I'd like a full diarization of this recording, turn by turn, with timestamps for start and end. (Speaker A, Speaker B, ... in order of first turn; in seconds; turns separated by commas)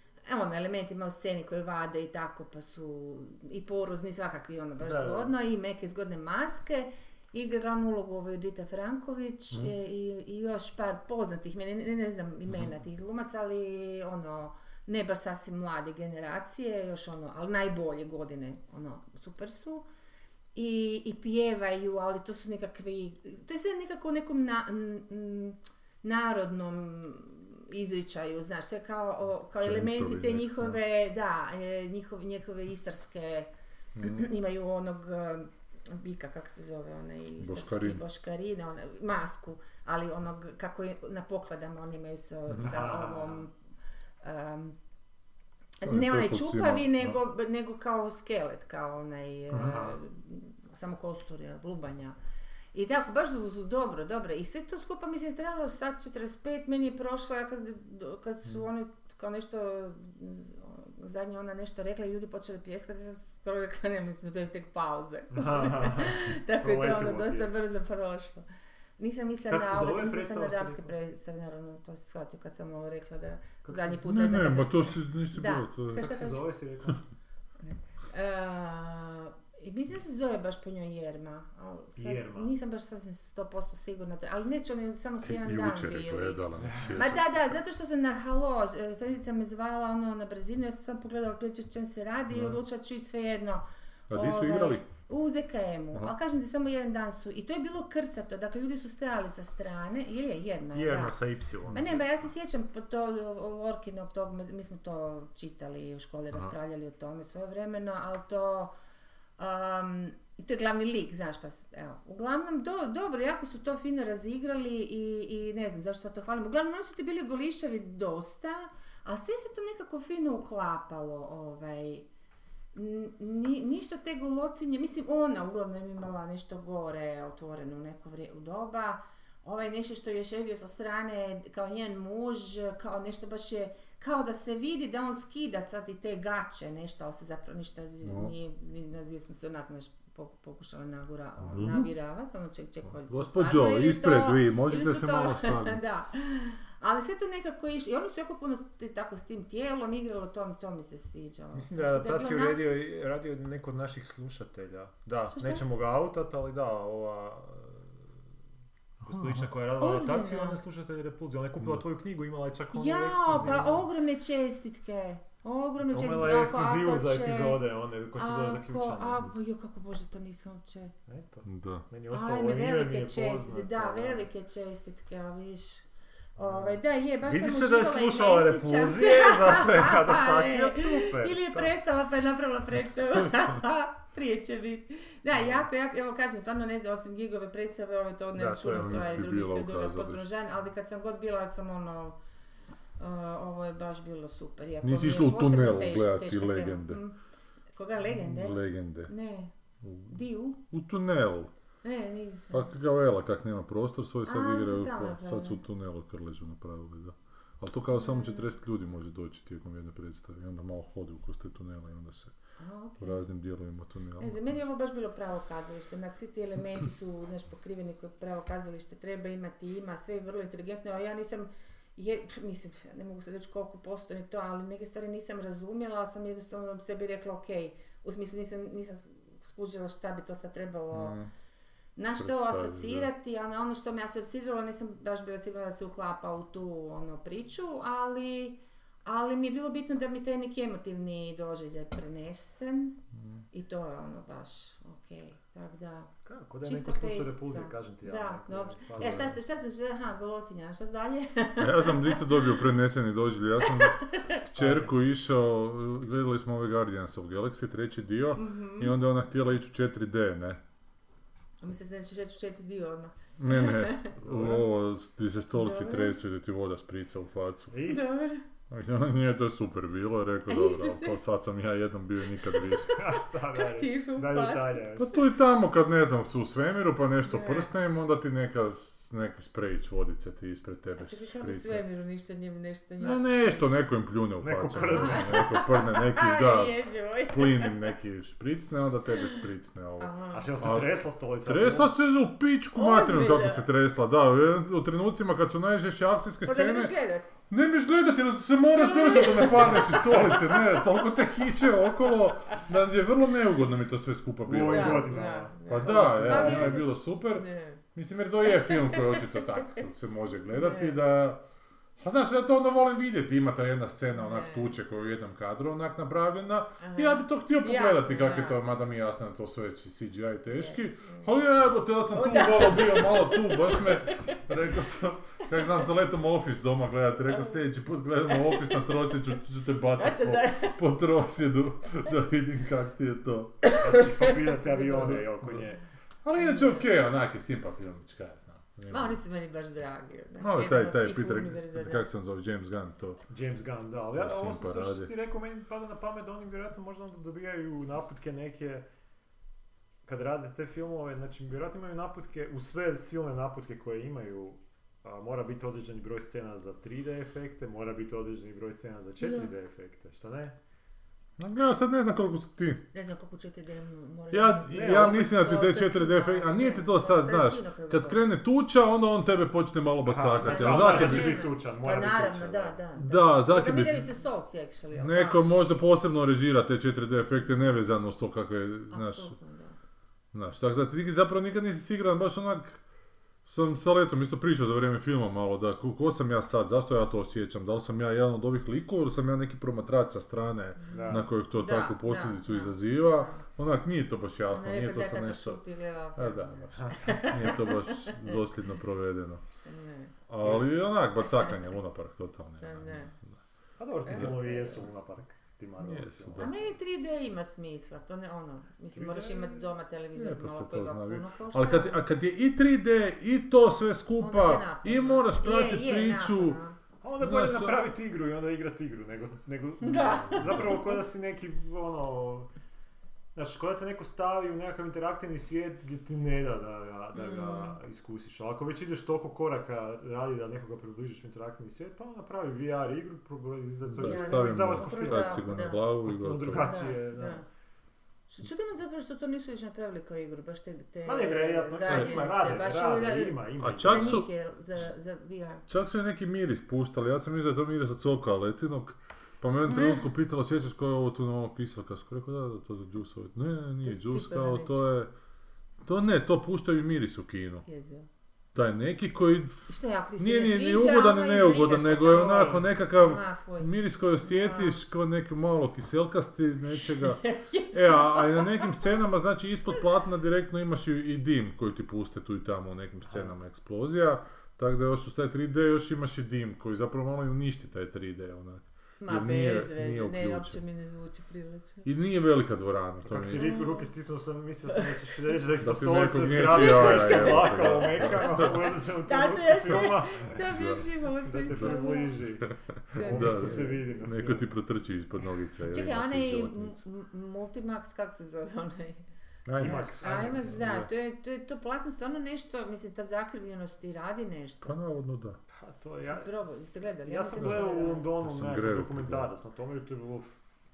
Speaker A: 0.2-19.9, Speaker B: 4.8-5.3, Speaker A: 20.5-43.5, Speaker C: 29.6-30.8, Speaker C: 34.0-34.3, Speaker C: 37.4-38.0, Speaker B: 42.6-43.4, Speaker A: 44.2-44.8, Speaker A: 45.8-52.1, Speaker C: 45.9-47.2, Speaker B: 49.5-50.0, Speaker A: 52.7-68.4, Speaker B: 65.3-67.5, Speaker A: 69.0-76.4, Speaker B: 69.5-70.9, Speaker B: 73.6-74.4, Speaker C: 74.1-76.1, Speaker B: 75.9-77.0, Speaker A: 77.6-86.4, Speaker B: 82.0-82.5, Speaker C: 85.2-87.5, Speaker B: 86.5-87.0, Speaker A: 86.9-101.2, Speaker C: 94.1-94.8, Speaker B: 100.7-102.0, Speaker C: 101.7-102.0, Speaker A: 101.7-108.7, Speaker A: 109.4-122.1, Speaker A: 122.7-152.6, Speaker C: 138.0-138.3, Speaker C: 141.4-141.9, Speaker C: 143.0-145.8, Speaker B: 151.5-158.1, Speaker A: 155.3-155.6, Speaker B: 159.0-163.8, Speaker C: 159.1-159.4, Speaker A: 159.8-160.6, Speaker A: 162.7-167.6, Speaker B: 165.8-169.2, Speaker A: 168.2-170.9, Speaker B: 171.1-174.2, Speaker C: 171.4-171.8, Speaker A: 172.1-175.8, Speaker B: 176.4-181.7, Speaker A: 176.4-192.2, Speaker B: 188.4-189.1, Speaker C: 188.5-190.2, Speaker A: 193.0-197.2, Speaker C: 194.8-197.0, Speaker A: 197.7-199.5, Speaker C: 198.0-199.1, Speaker C: 199.8-200.2, Speaker A: 200.1-200.6, Speaker C: 200.7-201.5, Speaker A: 201.8-202.7, Speaker C: 202.5-212.3, Speaker A: 204.2-205.6, Speaker A: 207.9-208.5, Speaker A: 212.6-213.2, Speaker C: 213.0-214.7, Speaker A: 214.2-231.1, Speaker C: 230.9-231.3, Speaker A: 231.9-243.0, Speaker C: 232.2-233.1, Speaker A: 243.5-246.1, Speaker B: 246.2-249.4, Speaker A: 246.6-252.5, Speaker C: 249.0-249.3, Speaker C: 251.6-260.6, Speaker A: 253.6-254.4, Speaker B: 254.6-254.9, Speaker A: 258.3-258.9, Speaker A: 261.6-264.1, Speaker C: 263.4-267.7, Speaker B: 264.2-264.6, Speaker A: 265.5-266.2, Speaker B: 267.7-268.0, Speaker A: 267.8-268.4, Speaker C: 268.7-272.9, Speaker A: 270.5-271.2, Speaker A: 272.4-275.1, Speaker B: 272.9-275.1, Speaker C: 275.0-281.8, Speaker A: 277.2-277.7, Speaker A: 280.9-283.6, Speaker C: 283.0-296.9, Speaker B: 284.4-285.4, Speaker A: 284.9-287.9, Speaker A: 290.0-290.5, Speaker B: 290.3-291.9, Speaker A: 292.7-293.6, Speaker A: 296.4-297.3, Speaker C: 297.5-311.4, Speaker A: 298.7-300.9, Speaker B: 304.4-306.8, Speaker A: 304.6-307.8, Speaker A: 308.5-309.8, Speaker A: 310.5-311.0, Speaker C: 312.0-333.7, Speaker A: 314.1-314.8, Speaker A: 316.8-318.6, Speaker A: 320.5-321.3, Speaker A: 322.1-324.4, Speaker A: 327.3-327.6, Speaker A: 328.3-328.9, Speaker A: 329.9-330.8, Speaker A: 333.6-335.2, Speaker B: 333.8-335.8, Speaker C: 334.9-335.6, Speaker C: 336.2-339.2, Speaker A: 336.4-336.9, Speaker A: 338.9-342.0, Speaker C: 340.4-343.2, Speaker B: 343.3-348.9, Speaker C: 344.1-345.1, Speaker B: 350.0-360.6, Speaker C: 361.4-362.8, Speaker A: 362.9-368.2, Speaker C: 364.3-371.4, Speaker B: 364.7-365.4, Speaker B: 370.0-372.8, Speaker A: 370.4-375.4, Speaker C: 373.0-374.1, Speaker C: 374.9-379.3, Speaker A: 378.9-379.8, Speaker C: 380.3-382.8, Speaker C: 383.4-395.6, Speaker A: 390.8-393.4, Speaker B: 390.9-391.3, Speaker A: 394.5-398.4, Speaker C: 396.1-399.4, Speaker B: 396.7-397.5, Speaker A: 399.6-400.1, Speaker C: 400.3-403.3, Speaker A: 402.6-403.1, Speaker B: 403.8-406.5, Speaker A: 404.1-404.8, Speaker C: 405.8-406.6, Speaker A: 406.4-412.0, Speaker B: 408.9-409.6, Speaker C: 410.1-416.6, Speaker A: 414.2-416.8, Speaker B: 417.0-422.5, Speaker C: 417.2-417.8, Speaker A: 419.8-420.9, Speaker B: 423.3-437.4, Speaker A: 427.1-427.8, Speaker C: 433.9-436.8, Speaker A: 434.0-435.8, Speaker A: 436.6-437.4, Speaker A: 438.3-445.6, Speaker B: 441.0-444.2, Speaker C: 441.9-442.2, Speaker C: 443.6-444.3, Speaker C: 445.7-455.1, Speaker A: 449.6-450.1, Speaker A: 453.8-454.8, Speaker C: 455.8-457.6, Speaker A: 457.6-458.1, Speaker C: 458.5-480.6, Speaker A: 459.7-464.8, Speaker B: 462.1-462.7, Speaker A: 466.8-468.7, Speaker B: 473.1-473.3, Speaker A: 479.0-481.9, Speaker C: 481.8-483.4, Speaker B: 483.0-494.5, Speaker A: 483.3-483.9, Speaker C: 485.5-488.5, Speaker A: 486.2-492.2, Speaker C: 489.7-490.9, Speaker C: 492.4-496.8, Speaker A: 492.9-493.6, Speaker A: 495.7-499.0, Speaker C: 499.4-500.9, Speaker B: 499.6-500.7, Speaker A: 499.6-504.8, Speaker C: 504.6-505.4, Speaker B: 505.5-506.3, Speaker A: 506.0-508.1, Speaker B: 507.0-510.4, Speaker C: 507.4-509.3